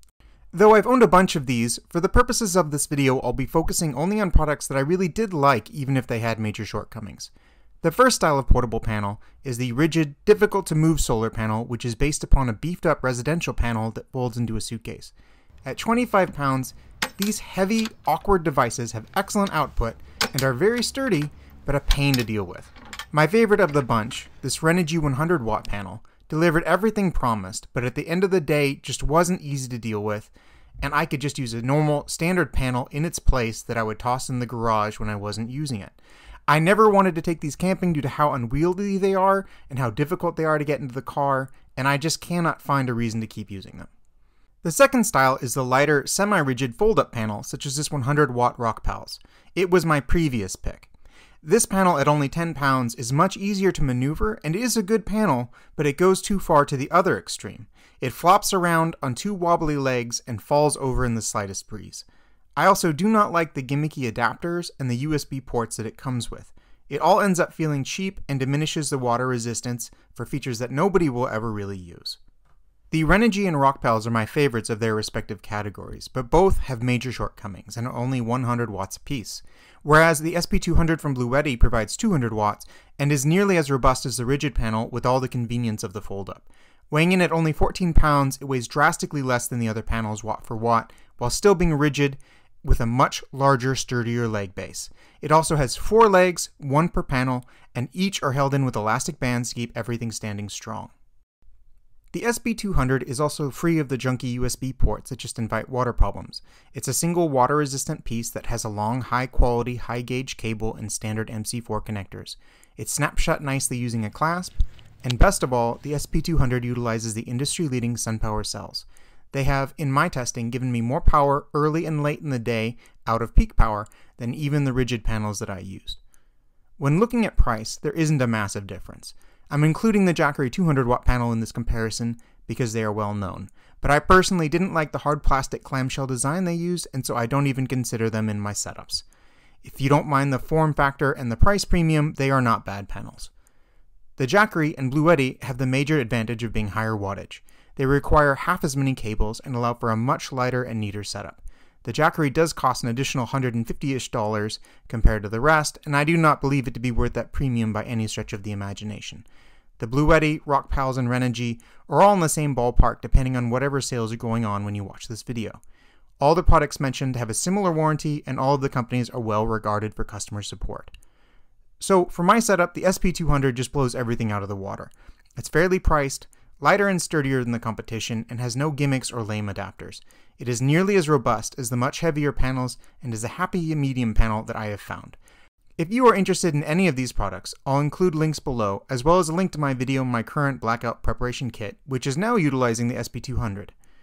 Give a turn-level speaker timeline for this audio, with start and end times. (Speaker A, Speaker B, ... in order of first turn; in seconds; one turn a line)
Speaker A: 0.5-7.3
Speaker A: 7.8-15.1
Speaker A: 15.7-36.0
Speaker A: 36.5-43.9
Speaker A: 44.6-50.9
Speaker A: 51.4-62.0
Speaker A: 62.6-72.2
Speaker A: 72.9-100.9
Speaker A: 102.1-126.0
Speaker A: 126.8-139.0
Speaker A: 139.6-143.3
Speaker A: 144.2-159.2
Speaker A: 159.8-165.6
Speaker A: 166.2-170.9
Speaker A: 171.8-185.2
Speaker A: 185.8-193.7